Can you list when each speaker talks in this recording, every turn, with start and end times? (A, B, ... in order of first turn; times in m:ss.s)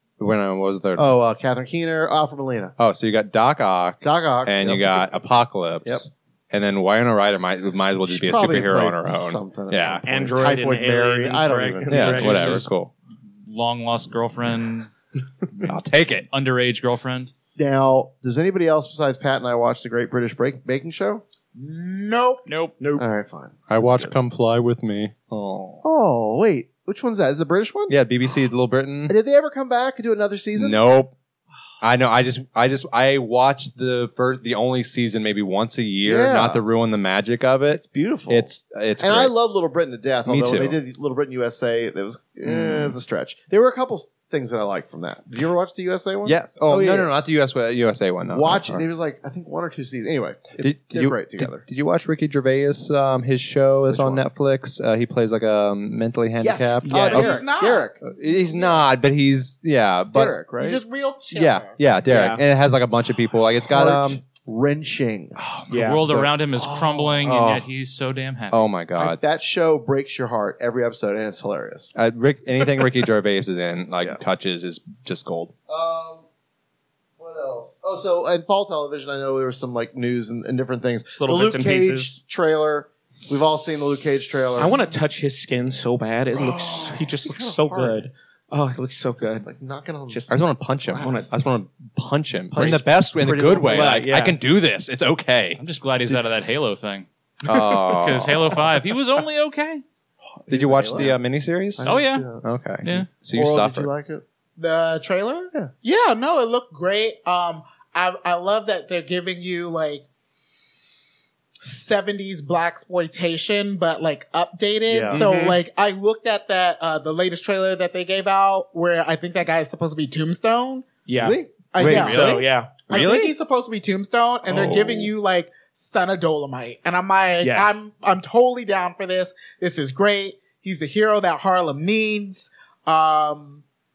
0:00.2-0:01.1 A
0:01.0-0:02.8 B
0:02.8-0:10.0 A
0:04.0-0:05.0 B
0:08.1-0:12.6 B
0:10.1-0:12.7 C
0:11.9-0:12.9 A
0:12.3-0:12.6 D
0:13.5-0:14.9 D
0:15.6-0:16.3 A
0:16.3-0:17.3 D
0:17.6-0:21.2 B
0:21.6-0:22.4 E
0:22.5-0:22.8 D
0:22.8-0:23.0 C
0:23.0-0:24.2 B
0:23.7-0:25.8 A
0:25.8-0:28.0 B
0:27.9-0:29.1 A
0:29.1-0:30.8 B
0:30.6-0:31.1 A
0:31.8-0:39.3 A
0:36.0-0:36.6 B
0:37.7-0:38.5 B
0:39.0-0:47.1 B
0:40.3-0:40.8 A
0:42.5-0:43.0 A
0:46.2-0:48.8 A
0:48.3-0:51.6 B
0:50.6-0:57.4 A
0:53.9-0:54.3 B
0:56.4-0:58.8 B
0:56.8-0:57.3 C
0:57.0-0:57.9 E
0:58.0-1:00.4 A
1:00.1-1:00.8 B
1:00.5-1:01.8 E
1:01.3-1:04.2 A
1:02.1-1:02.4 C
1:03.6-1:05.4 B
1:05.4-1:06.3 A
1:05.7-1:06.1 C
1:05.8-1:08.7 D
1:06.5-1:07.3 B
1:07.2-1:07.7 A
1:08.5-1:09.2 A
1:09.0-1:11.9 B
1:12.0-1:15.5 A
1:15.7-1:16.2 B
1:17.2-1:24.8 B
1:21.2-1:22.2 C
1:24.6-1:29.4 C
1:26.4-1:28.1 B
1:29.4-1:31.4 B
1:30.1-1:30.4 C
1:30.3-1:35.6 A
1:31.0-1:31.3 C
1:32.5-1:34.1 B
1:33.7-1:34.4 C
1:35.6-1:37.1 D
1:37.4-1:38.6 A
1:37.9-1:39.8 D
1:40.4-1:41.2 B
1:40.5-1:43.9 A
1:41.8-1:42.4 B
1:41.8-1:42.3 D
1:43.3-1:44.2 B
1:44.6-1:50.1 E
1:51.6-2:00.9 E
1:54.9-1:55.2 B
1:55.1-1:55.6 C
2:01.1-2:02.8 C
2:01.2-2:02.4 B
2:01.7-2:13.6 E
2:01.8-2:03.3 A
2:04.5-2:05.1 A
2:07.4-2:07.8 C